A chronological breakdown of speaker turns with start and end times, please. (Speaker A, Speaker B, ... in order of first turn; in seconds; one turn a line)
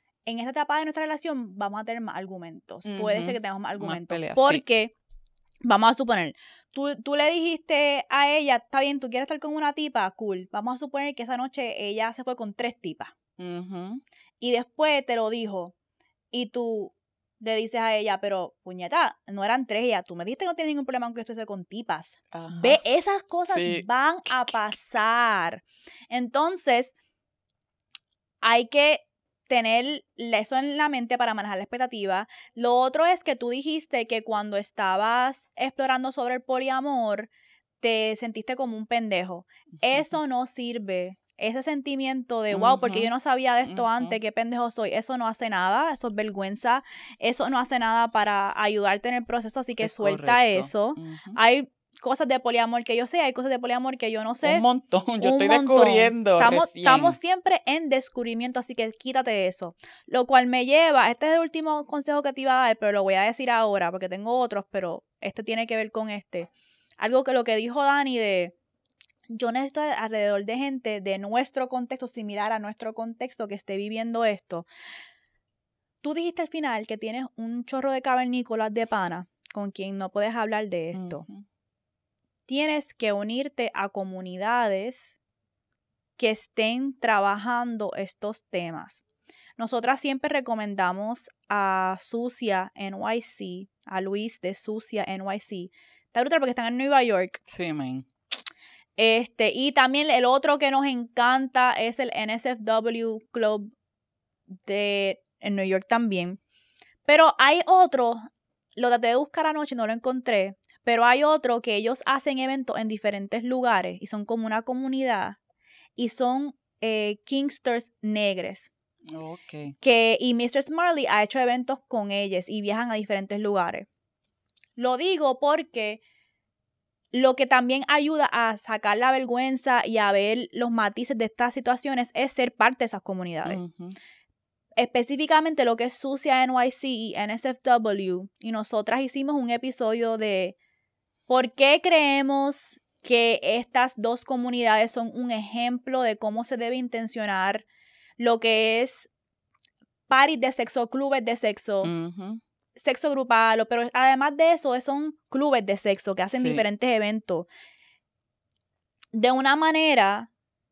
Speaker A: 0.2-4.9
Speaker B: 2.8-4.6
Speaker A: 5.6-13.1
Speaker B: 13.4-14.0
Speaker A: 14.4-15.7
Speaker A: 16.3-26.9
Speaker B: 22.3-22.8
Speaker B: 23.5-24.6
Speaker A: 28.4-37.3
Speaker A: 37.8-54.6
Speaker B: 42.5-43.1
Speaker B: 43.6-44.2
Speaker B: 49.8-51.4
Speaker B: 54.4-57.2
Speaker A: 55.2-68.5
Speaker A: 69.3-74.7
Speaker A: 76.0-81.2
Speaker B: 80.9-81.4
Speaker A: 82.5-85.2
Speaker A: 86.2-89.0
Speaker A: 89.6-97.4
Speaker B: 97.5-98.1
Speaker A: 99.0-103.7
Speaker A: 104.6-106.4
Speaker A: 107.0-115.4
Speaker A: 116.0-118.7
Speaker B: 119.1-119.7
Speaker A: 119.8-123.9
Speaker A: 124.8-126.0
Speaker A: 127.1-133.6
Speaker B: 133.4-134.0
Speaker A: 134.8-140.6
Speaker A: 141.3-147.7
Speaker A: 148.2-149.1
Speaker A: 150.1-151.9
Speaker B: 151.8-152.4
Speaker A: 152.8-157.5
Speaker B: 156.3-156.6
Speaker A: 159.1-160.3